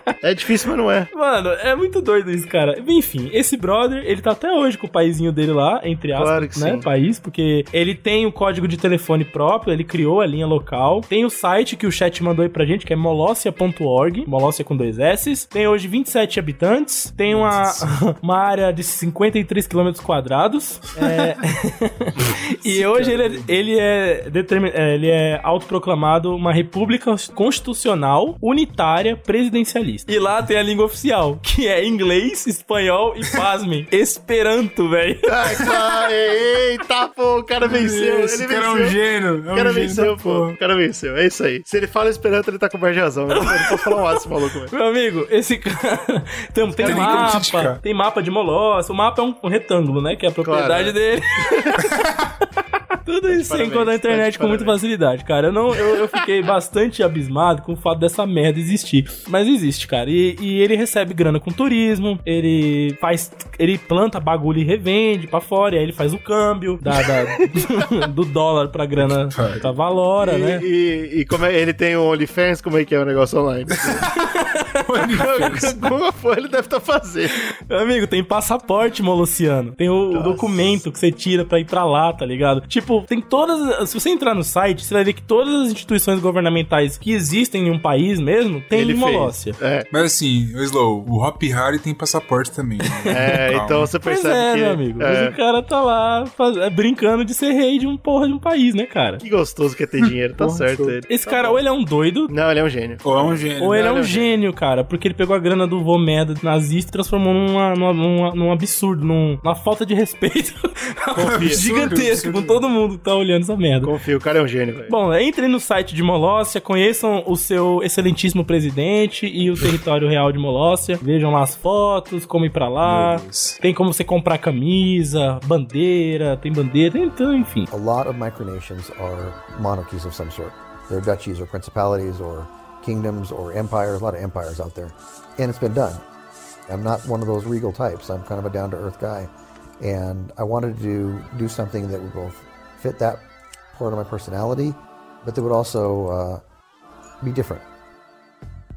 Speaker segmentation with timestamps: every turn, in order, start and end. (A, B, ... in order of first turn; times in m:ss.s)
0:00.2-0:01.1 A
0:01.1-0:35.3 B
0:06.1-0:06.8 A
0:17.3-0:17.9 C
0:22.6-0:23.6 C
0:35.3-0:39.0 A
0:37.6-0:40.5 C
0:39.5-0:44.7 A
0:43.3-0:51.9 B
0:46.7-0:47.4 A
0:46.8-0:47.8 C
0:50.4-0:51.0 A
0:51.8-0:52.3 C
0:53.0-1:10.6 B
0:53.3-0:54.8 A
1:09.0-1:09.7 C
1:10.2-1:14.0 A
1:13.8-1:14.3 C
1:14.3-1:15.6 B
1:14.8-1:15.8 C
1:15.1-1:17.4 A
1:17.7-1:29.6 B
1:20.1-1:20.8 A
1:28.7-1:29.9 A
1:29.9-1:33.9 C
1:33.1-1:35.4 A
1:34.0-1:39.2 B
1:39.2-1:41.6 A
1:40.0-1:41.0 C
1:41.1-1:42.3 B
1:42.3-1:44.3 A
1:43.0-1:43.9 C
1:43.6-1:53.9 B
1:51.2-1:51.6 A
1:51.2-1:52.6 C
1:53.8-1:54.9 A
1:54.9-2:07.7 B
2:02.8-2:03.6 C
2:07.7-2:16.0 D
2:16.7-2:26.4 D
2:27.2-2:27.6 D